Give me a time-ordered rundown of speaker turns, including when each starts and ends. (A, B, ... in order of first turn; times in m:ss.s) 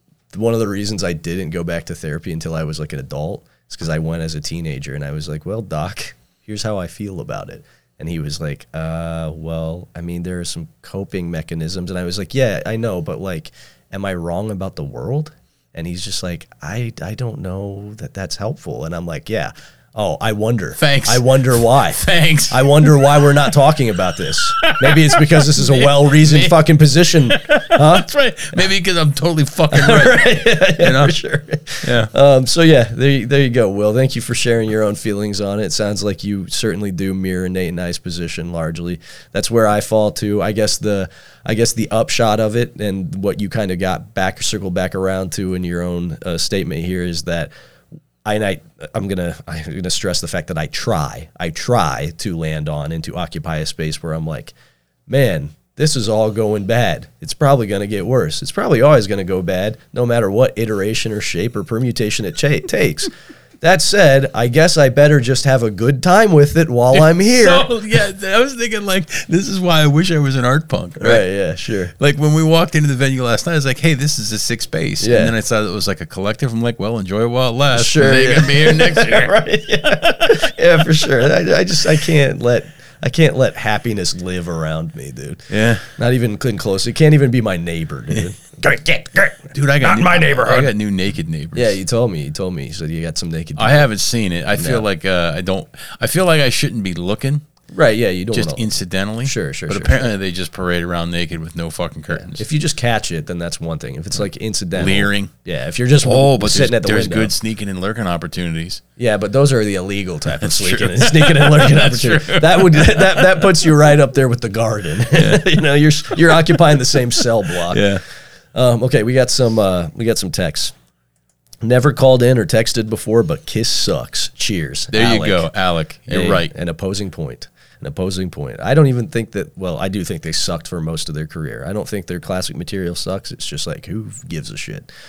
0:00.3-0:28.6 A
0:20.8-0:23.5 B
0:24.6-0:26.6 B
0:27.3-0:31.2 B
0:29.7-0:47.5 A
0:31.8-0:32.1 B
0:48.2-0:54.5 A
0:55.1-1:03.1 A
1:03.6-1:07.7 A
1:06.9-1:11.2 B
1:11.0-1:11.9 A
1:12.0-1:21.2 B
1:15.0-1:15.3 A
1:17.7-1:30.7 A
1:25.5-1:25.9 B
1:29.5-1:31.8 B
1:31.6-1:33.9 A
1:33.6-1:37.4 B
1:34.5-1:34.8 A
1:37.7-1:38.6 A
1:38.3-1:42.4 B
1:39.2-1:40.1 A
1:42.1-1:47.3 A
1:44.8-1:45.3 B
1:46.0-1:48.8 B
1:49.0-1:58.0 A
1:50.4-1:53.7 B
1:55.1-1:55.5 B
1:56.1-1:58.0 B
1:58.5-2:00.7 A
2:01.6-2:05.5 A
2:04.9-2:06.5 B
2:06.1-2:14.9 A